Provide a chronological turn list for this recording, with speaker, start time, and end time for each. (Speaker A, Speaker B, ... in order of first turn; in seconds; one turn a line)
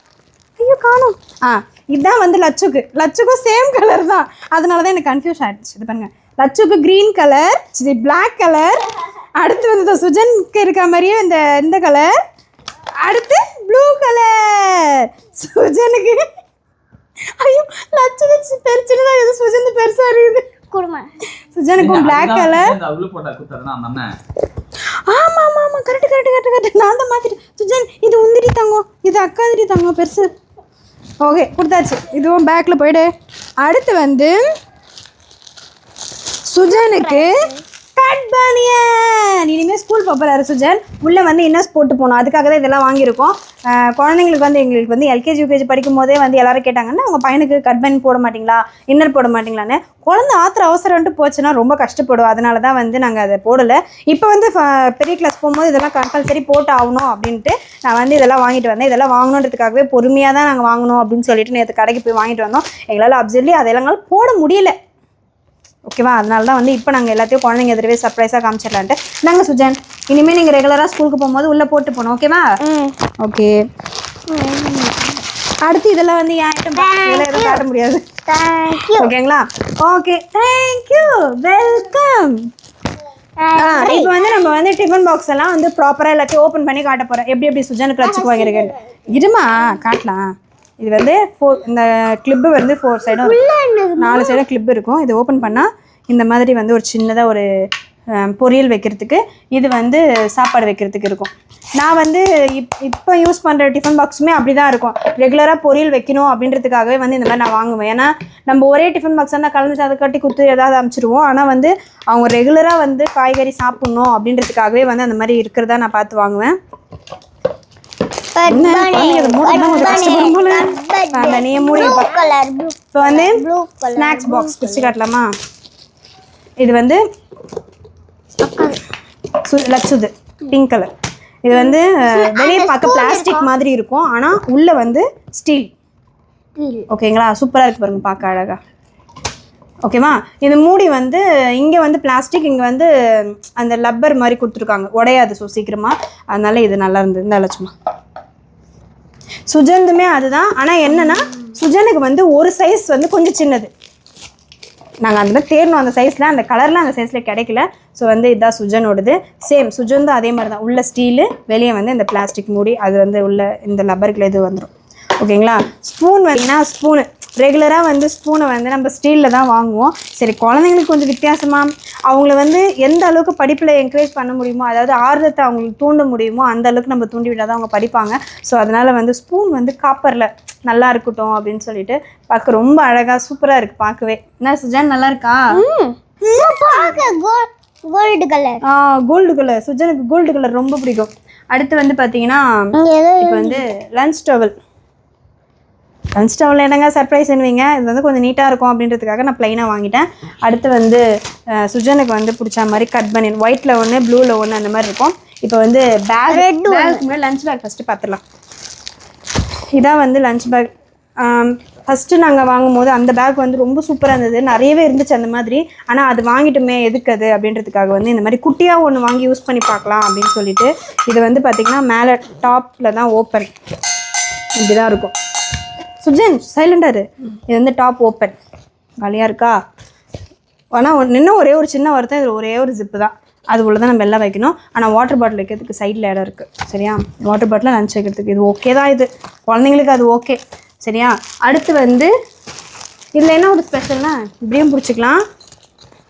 Speaker A: 0.6-8.7
Speaker A: 9.4-12.1
Speaker A: 13.0-16.2
Speaker A: 17.4-20.4
Speaker B: 20.7-21.1
Speaker A: 21.5-22.8
Speaker C: 21.8-24.1
Speaker A: 25.1-30.3
Speaker A: 31.2-33.1
Speaker A: 33.6-34.4
Speaker A: 36.5-37.3
Speaker B: 36.7-37.4
Speaker A: 38.0-64.7
Speaker A: 65.9-72.5
Speaker B: 72.6-73.0
Speaker A: 73.2-73.6
Speaker B: 74.3-75.2
Speaker A: 75.6-78.0
Speaker B: 76.8-77.6
Speaker B: 78.3-79.1
Speaker A: 78.9-82.4
Speaker B: 83.4-84.1
Speaker A: 83.6-93.4
Speaker B: 88.0-88.7
Speaker B: 93.2-94.4
Speaker A: 94.0-97.5
Speaker A: 98.2-116.5
Speaker B: 118.4-124.9
Speaker A: 118.5-122.1
Speaker A: 122.9-123.4
Speaker A: 124.0-125.3
Speaker A: 126.6-127.0
Speaker B: 128.4-128.8
Speaker A: 129.4-130.9
Speaker A: 131.5-135.7
Speaker B: 131.5-133.5
Speaker B: 136.6-136.9
Speaker A: 136.9-138.6
Speaker A: 139.8-147.7
Speaker A: 149.5-153.7
Speaker A: 155.1-185.4
Speaker B: 185.6-188.6
Speaker A: 188.7-192.4
Speaker B: 192.8-193.6
Speaker A: 193.2-194.5
Speaker A: 196.2-201.0
Speaker A: 201.6-208.2
Speaker B: 206.3-207.0
Speaker A: 209.8-210.7
Speaker A: 211.2-223.5
Speaker A: 224.6-225.2
Speaker A: 226.0-228.4
Speaker A: 229.0-229.6
Speaker A: 230.7-242.1
Speaker A: 243.2-245.2